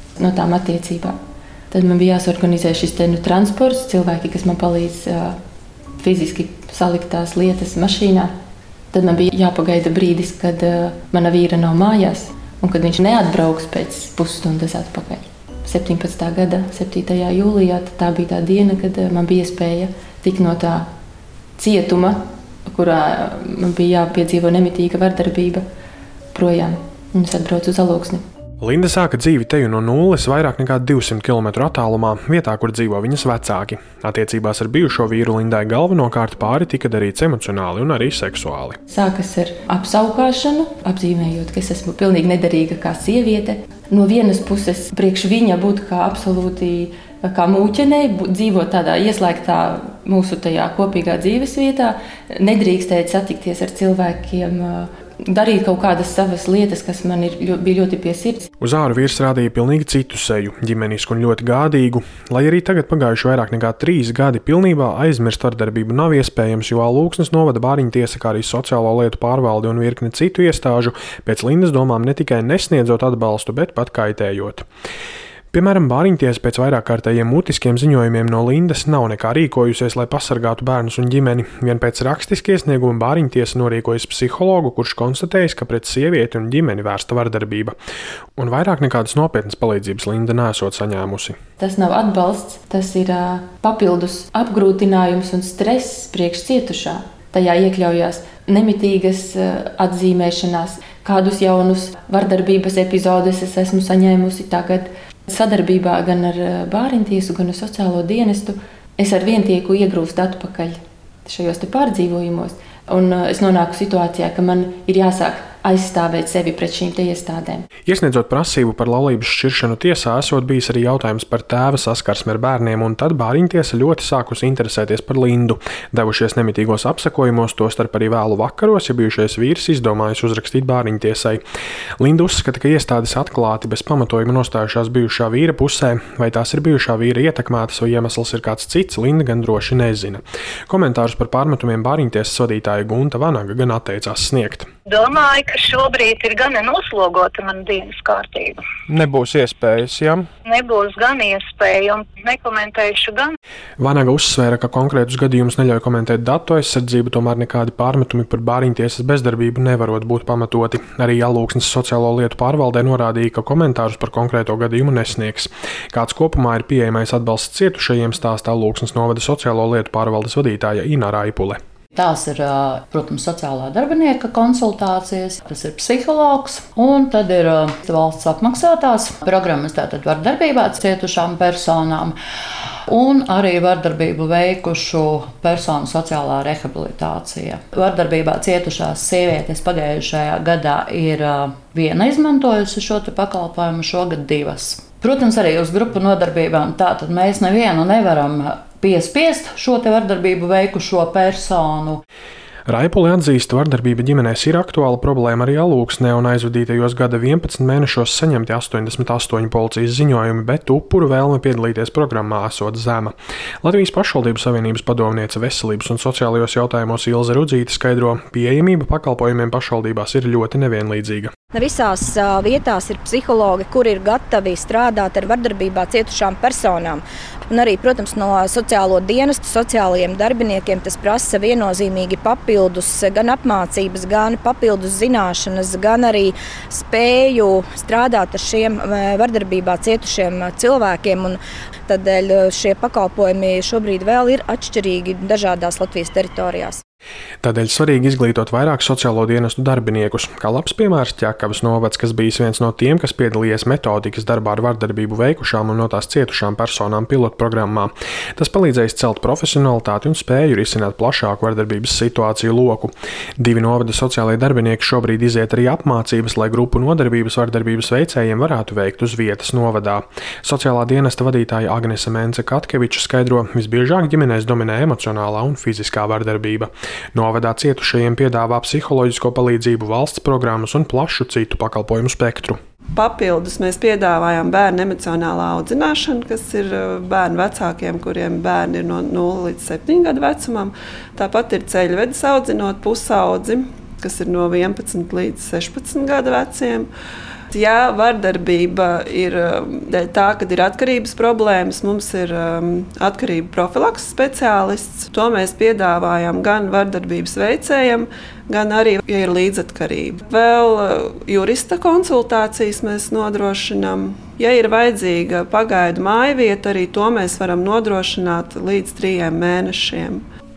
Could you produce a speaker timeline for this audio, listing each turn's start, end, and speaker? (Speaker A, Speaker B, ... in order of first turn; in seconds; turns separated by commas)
Speaker A: 0.2-1.2, Speaker A: 1.7-5.4, Speaker A: 6.0-8.3, Speaker A: 8.9-20.9, Speaker A: 21.6-25.6, Speaker A: 26.3-28.2, Speaker B: 28.6-38.8, Speaker A: 38.9-58.5, Speaker B: 58.6-74.7, Speaker B: 75.5-87.8, Speaker B: 88.4-91.4, Speaker A: 91.6-117.7, Speaker B: 117.9-131.4, Speaker B: 132.0-144.7, Speaker C: 144.9-148.6, Speaker B: 148.9-150.2, Speaker C: 150.4-153.3, Speaker B: 153.8-171.6, Speaker D: 171.9-182.2, Speaker D: 182.9-202.0, Speaker B: 202.7-221.3, Speaker E: 221.5-246.8, Speaker B: 247.4-282.6, Speaker F: 282.9-296.9, Speaker F: 297.5-320.2